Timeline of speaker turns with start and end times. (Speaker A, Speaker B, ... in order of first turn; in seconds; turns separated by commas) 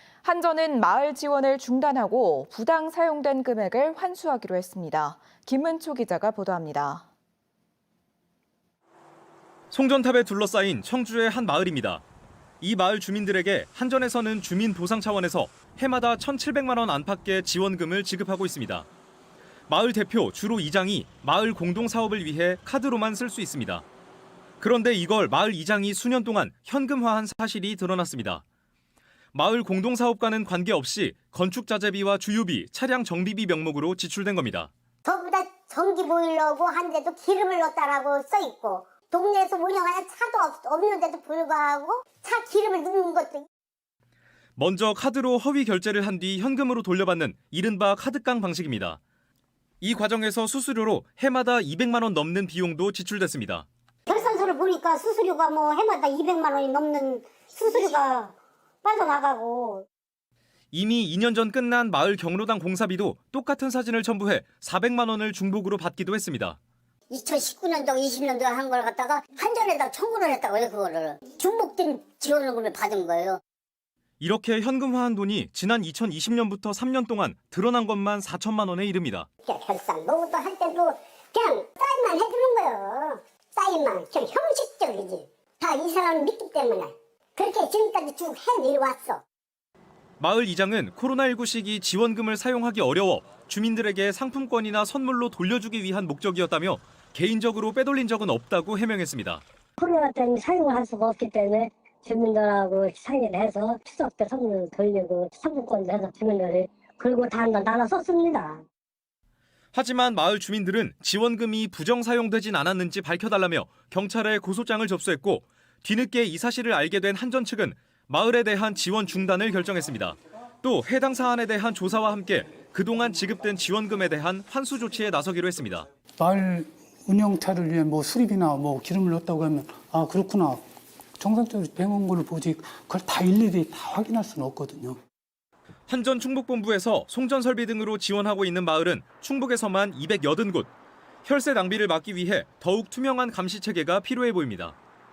Speaker A: 0.2-7.0, Speaker B: 9.7-12.0, Speaker B: 12.6-18.9, Speaker B: 19.7-23.8, Speaker B: 24.6-28.4, Speaker B: 29.3-34.7, Speaker C: 35.0-43.4, Speaker B: 44.6-49.0, Speaker B: 49.8-53.6, Speaker C: 54.1-59.8, Speaker B: 60.7-66.6, Speaker C: 67.1-73.4, Speaker B: 74.2-79.3, Speaker C: 79.4-89.2, Speaker B: 90.2-99.4, Speaker D: 99.8-108.6, Speaker B: 109.7-125.9, Speaker E: 126.2-130.6, Speaker E: 131.2-135.0, Speaker B: 135.9-140.7, Speaker B: 141.2-144.8